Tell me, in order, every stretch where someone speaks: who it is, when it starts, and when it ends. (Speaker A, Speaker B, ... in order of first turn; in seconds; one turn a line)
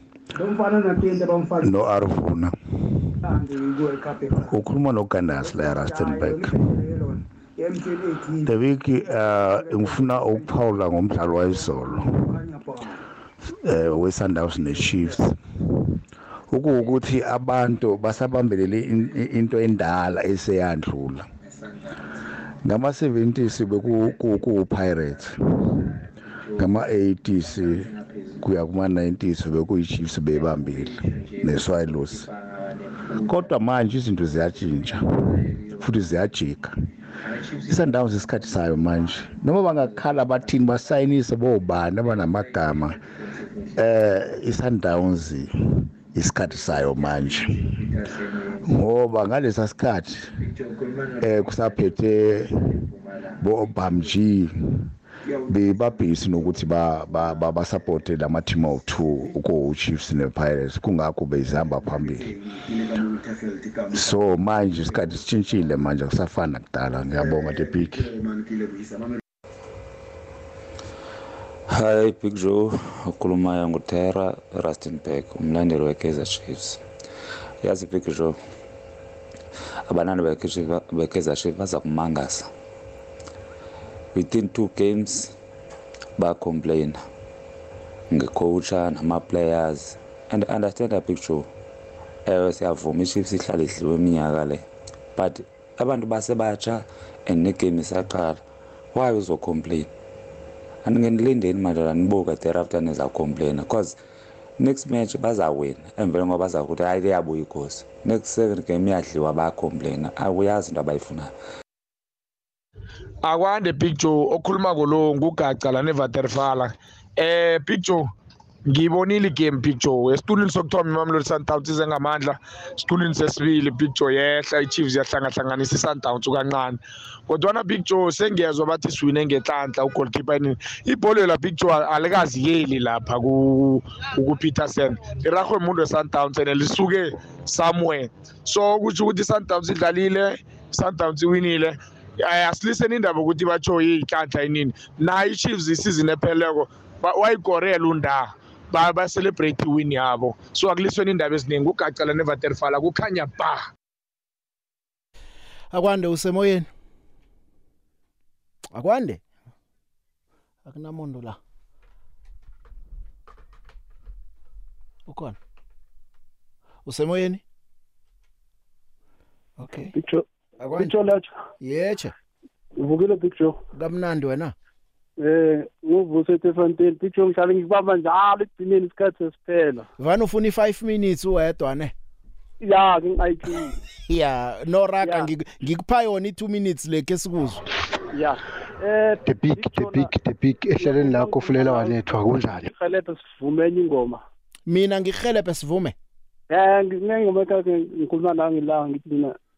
Speaker A: 0.4-1.7
Speaker B: 1.6-2.5
Speaker A: 3.2-4.5
Speaker B: 4.5-6.6
Speaker A: 5.3-8.5
Speaker B: 8.4-12.2
Speaker A: 9.1-10.6
Speaker A: 11.3-13.0
Speaker B: 13.6-15.4
Speaker B: 16.5-21.3
Speaker B: 22.6-25.7
Speaker B: 26.5-32.3
Speaker B: 33.1-36.7
Speaker B: 37.6-43.0
Speaker B: 43.8-45.5
Speaker B: 46.1-47.9
Speaker B: 48.6-50.4
Speaker B: 51.2-52.9
Speaker B: 53.4-54.5
Speaker B: 55.5-62.3
Speaker B: 63.9-68.1
Speaker C: 71.7-76.8
Speaker C: 77.6-78.4
Speaker C: 79.9-82.5
Speaker C: 84.1-85.3
Speaker C: 86.2-87.0
Speaker C: 88.1-91.5
Speaker C: 92.3-94.6
Speaker C: 95.2-98.4
Speaker C: 98.9-99.9
Speaker C: 100.8-104.0
Speaker C: 104.6-111.3
Speaker D: 113.2-118.1
Speaker D: 118.7-153.7
Speaker E: 155.7-156.7
Speaker E: 158.7-159.2
Speaker E: 160.7-161.4
Speaker E: 165.1-165.4
Speaker E: 166.8-167.4
Speaker E: 169.6-169.9
Speaker F: 169.9-171.3
Speaker E: 170.7-170.9
Speaker E: 171.6-172.1
Speaker F: 172.8-173.6
Speaker E: 173.7-174.5
Speaker F: 175.2-179.9
Speaker E: 180.0-181.9
Speaker F: 182.6-183.8
Speaker E: 184.1-187.6
Speaker F: 185.0-185.3
Speaker F: 188.1-190.1
Speaker G: 189.2-192.7
Speaker F: 190.8-192.0
Speaker F: 192.7-194.2
Speaker E: 194.7-195.9
Speaker F: 196.5-199.3